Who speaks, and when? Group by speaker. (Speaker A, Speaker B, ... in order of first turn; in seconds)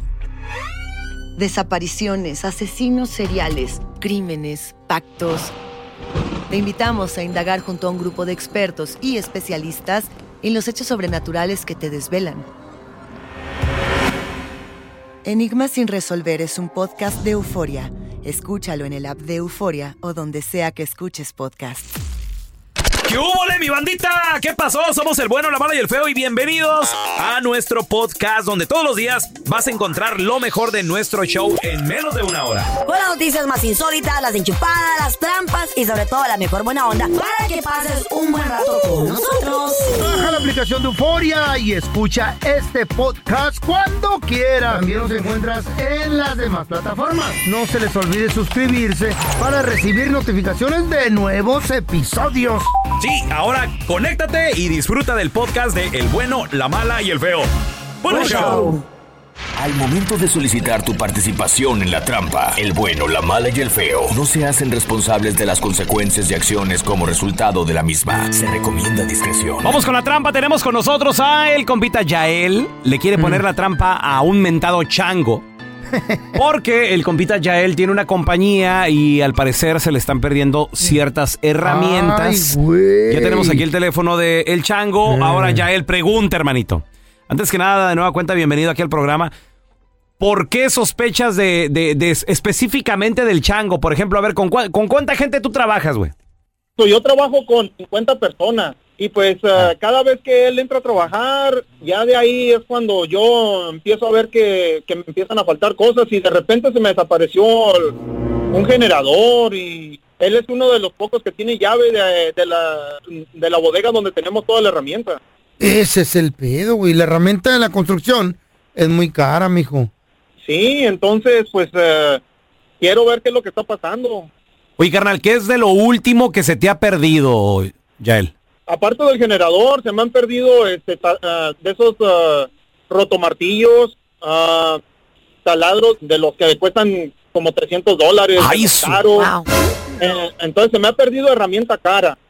Speaker A: 1.4-5.5, 6.5-12.5, 15.2-21.9
Speaker B: 23.0-32.7, 53.0-57.5, 58.0-58.7, 69.6-75.4, 76.3-82.6, 83.1-89.3, 90.2-96.1, 124.8-128.3, 138.4-139.0
Speaker C: 32.8-40.0, 58.1-58.8, 139.1-139.5
Speaker D: 39.9-52.7, 73.2-73.4, 75.9-76.4, 81.6-83.6, 85.0-85.7, 115.6-119.9
Speaker E: 59.6-69.8
Speaker F: 96.8-107.9, 108.5-115.2, 120.4-122.2, 122.8-124.3, 128.7-134.8, 135.4-139.3, 140.0-142.2